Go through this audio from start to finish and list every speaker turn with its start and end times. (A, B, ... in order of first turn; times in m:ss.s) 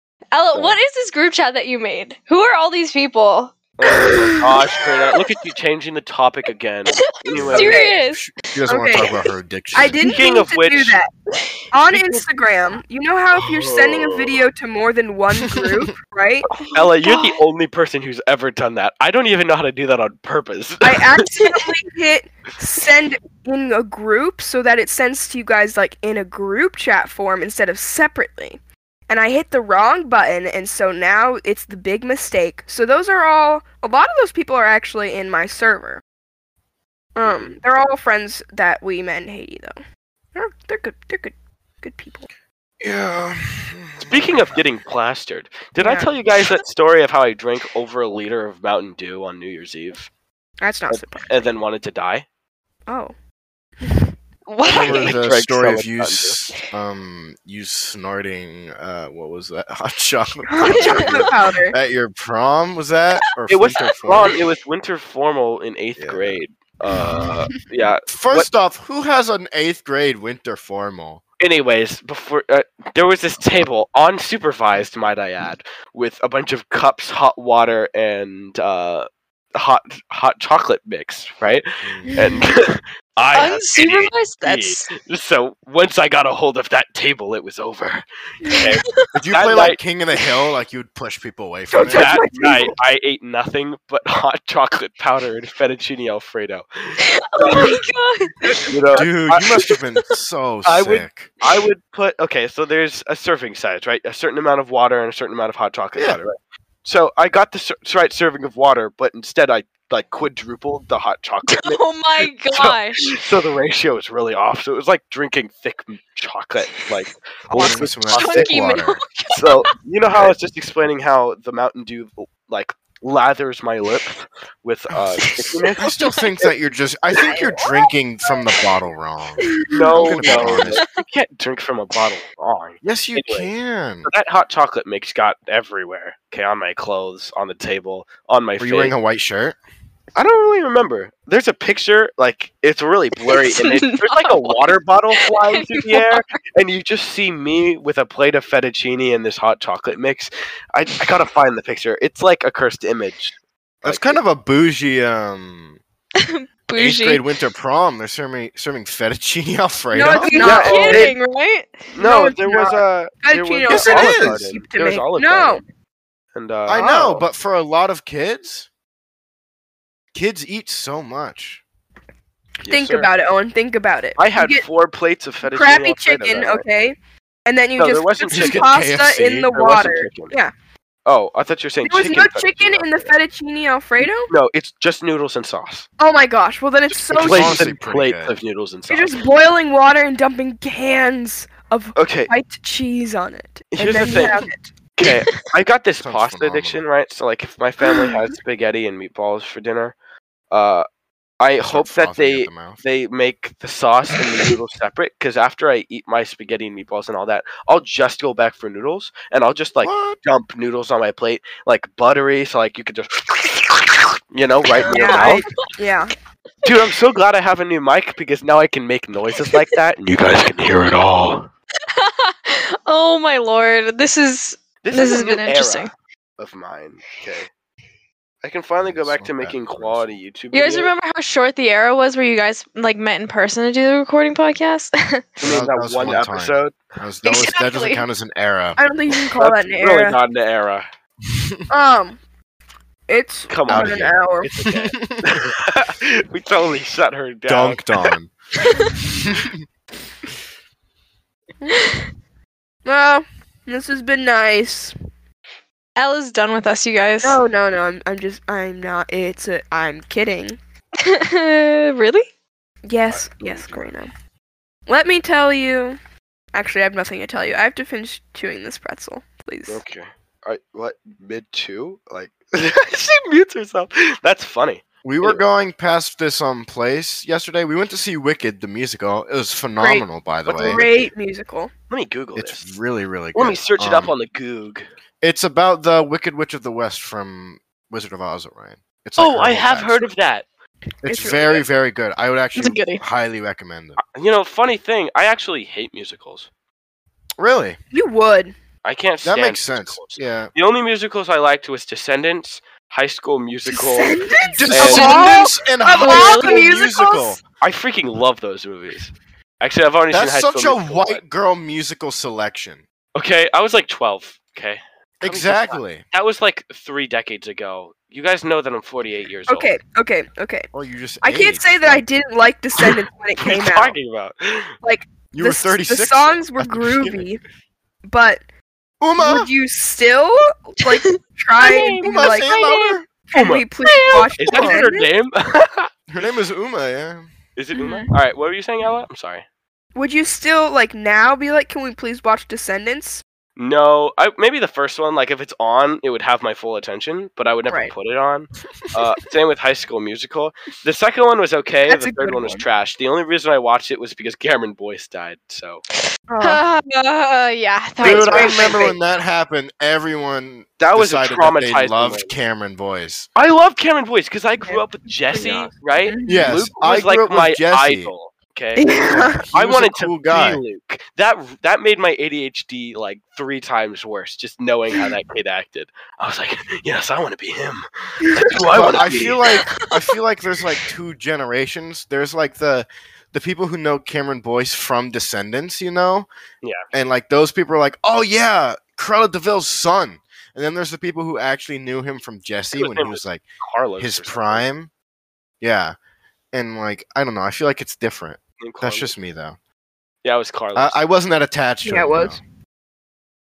0:00.3-0:05.2 A
0:00.5-0:00.8 B
0:03.8-0:07.8 B
0:07.0-0:08.3 A
0:07.3-0:10.0 C
0:07.6-0:08.0 D
0:08.7-0:09.1 D
0:09.0-0:09.2 A
0:09.7-0:11.1 D
0:10.0-0:11.0 B
0:11.3-0:11.6 A
0:11.7-0:16.5 D
0:11.9-0:12.2 B
0:13.4-0:14.4 B
0:15.5-0:15.9 C
0:16.6-0:17.4 A
0:16.7-0:21.2 B
0:20.8-0:36.0 D
0:37.2-0:39.8 D
0:37.2-0:37.5 B
0:40.3-0:42.3 D
0:42.8-0:44.6 C
0:44.0-0:50.1 B
0:45.8-0:46.1 D
0:50.6-0:51.3 D
0:50.9-0:52.2 B
0:52.9-0:53.1 D
0:54.5-0:55.1 A
0:54.6-1:04.4 C
0:54.7-0:56.4 B
1:00.5-1:01.7 D
1:00.7-1:01.2 A
1:03.5-1:08.5 B
1:06.0-1:06.4 C
1:06.9-1:07.5 D
1:08.1-1:11.2 C
1:11.4-1:29.8 B
1:21.8-1:22.1 C
1:22.1-1:22.4 D
1:23.3-1:24.9 A
1:28.5-1:28.9 A
1:29.1-1:32.2 C
1:31.7-1:32.7 D
1:31.9-1:37.0 B
1:37.0-1:39.0 A
1:38.6-1:39.5 B
1:38.9-1:41.3 C
1:40.6-1:58.5 B
1:46.0-1:46.2 C
1:51.5-1:53.2 A
1:57.6-1:59.0 C
1:58.1-1:59.7 A
1:59.3-2:06.5 B
2:05.0-2:10.8 C
2:05.2-2:06.3 A
2:07.3-2:07.6 D
2:09.7-2:13.5 B
2:10.0-2:11.0 A
2:12.8-2:14.1 C
2:14.0-2:19.0 B
2:18.6-2:19.6 C
2:20.1-2:34.2 B
2:23.2-2:24.7 A
2:25.2-2:26.2 A
2:33.8-2:35.8 C
2:36.2-2:37.2 A
2:36.8-2:40.4 C
2:39.9-2:41.1 D
2:40.2-2:41.9 A
2:40.4-2:41.2 B
2:41.9-2:45.6 B
2:42.0-2:45.6 D
2:43.7-2:44.4 C
2:46.3-2:46.9 B
2:46.7-2:48.7 C
2:46.8-2:47.2 D
2:50.1-2:51.6 C
2:52.6-2:54.6 D
2:52.6-2:53.1 B
2:54.2-2:56.6 B
2:55.4-3:00.5 D
2:57.8-3:00.3 B
2:58.3-2:59.2 C
3:01.0-3:03.1 B
3:01.8-3:04.3 D
3:04.0-3:05.9 B
3:06.0-3:07.7 D
3:07.1-3:09.2 B
3:07.1-3:08.3 C
3:08.9-3:14.7 D
3:12.0-3:12.3 B
3:13.7-3:19.9 B
3:15.0-3:15.4 A
3:16.0-3:16.8 C
3:20.5-3:20.8 B
3:21.4-3:35.4 B
3:21.6-3:22.8 C
3:29.8-3:30.2 C
3:34.8-3:35.4 A
3:34.9-3:36.1 D
3:36.6-3:41.5 B
3:39.4-3:39.7 A
3:41.9-3:45.9 A
3:44.8-3:47.5 B
3:48.4-3:50.9 B
3:48.8-3:50.2 C
3:50.5-3:55.3 A
3:55.4-3:56.8 B
3:55.4-3:58.8 C
3:57.2-3:58.0 A
3:58.8-4:00.2 D
3:59.4-4:00.8 B
4:01.2-4:01.6 C
4:01.7-4:02.2 D
4:03.1-4:04.5 D
4:03.5-4:08.1 B
4:03.7-4:04.1 C
4:04.6-4:05.4 C
4:07.5-4:08.3 C
4:08.6-4:08.9 A
4:09.0-4:09.6 C
4:11.7-4:12.0 A
4:12.8-4:14.9 D
4:16.0-4:17.4 A
4:17.2-4:20.6 D
4:21.0-4:22.3 A
4:22.8-4:24.1 D
4:23.1-4:23.8 B
4:24.9-4:26.0 D
4:26.5-4:29.8 D
4:29.7-4:35.4 B
4:35.0-4:40.8 C
4:39.8-4:40.0 D
4:40.5-4:41.1 B
4:40.6-4:41.7 D
4:41.9-4:42.7 B
4:42.3-4:44.1 C
4:43.3-4:44.8 B
4:45.2-4:50.1 C
4:49.2-4:50.4 B
4:51.0-4:51.6 D
4:51.0-4:54.0 C
4:52.6-4:53.0 A
4:54.1-4:56.5 B
4:57.4-4:57.8 C
4:57.9-4:58.5 D
4:58.8-5:04.2 B
4:59.2-5:00.5 C
5:03.7-5:07.4 D
5:04.5-5:07.4 C
5:04.7-5:05.2 B
5:04.8-5:06.8 A
5:07.6-5:11.2 B
5:10.1-5:12.8 C
5:13.1-5:19.7 B
5:15.2-5:16.0 C
5:19.5-5:20.7 D
5:20.7-5:22.0 C
5:21.2-5:24.0 D
5:23.4-5:24.7 B
5:24.8-5:27.4 D
5:25.3-5:27.2 C
5:28.0-5:28.4 D
5:29.0-5:29.5 C
5:29.2-5:32.6 D
5:31.6-5:33.6 B
5:32.0-5:33.0 C
5:33.3-5:35.1 D
5:33.8-5:34.8 A
5:34.4-5:35.9 B
5:36.1-5:37.3 C
5:37.6-5:39.4 B
5:37.7-5:38.1 A
5:39.9-5:43.2 D
5:43.6-5:55.8 B
5:48.9-5:49.1 C
5:51.9-5:52.6 D
5:56.3-5:56.6 D
5:56.4-5:58.8 A
5:58.0-5:59.0 D
5:58.0-6:03.3 C
6:00.8-6:02.3 B
6:03.4-6:08.9 B
6:04.6-6:06.5 D
6:06.2-6:08.1 C
6:08.8-6:09.4 D
6:09.1-6:10.6 C
6:09.5-6:19.6 B
6:18.2-6:18.5 D
6:18.6-6:26.3 C
6:19.6-6:20.0 A
6:26.9-6:33.4 C
6:32.7-6:34.6 B
6:34.0-6:34.9 C
6:35.6-6:36.0 C
6:36.5-6:39.6 C
6:38.6-6:39.1 B
6:40.2-6:41.0 B
6:40.7-6:42.4 C
6:41.8-6:42.4 D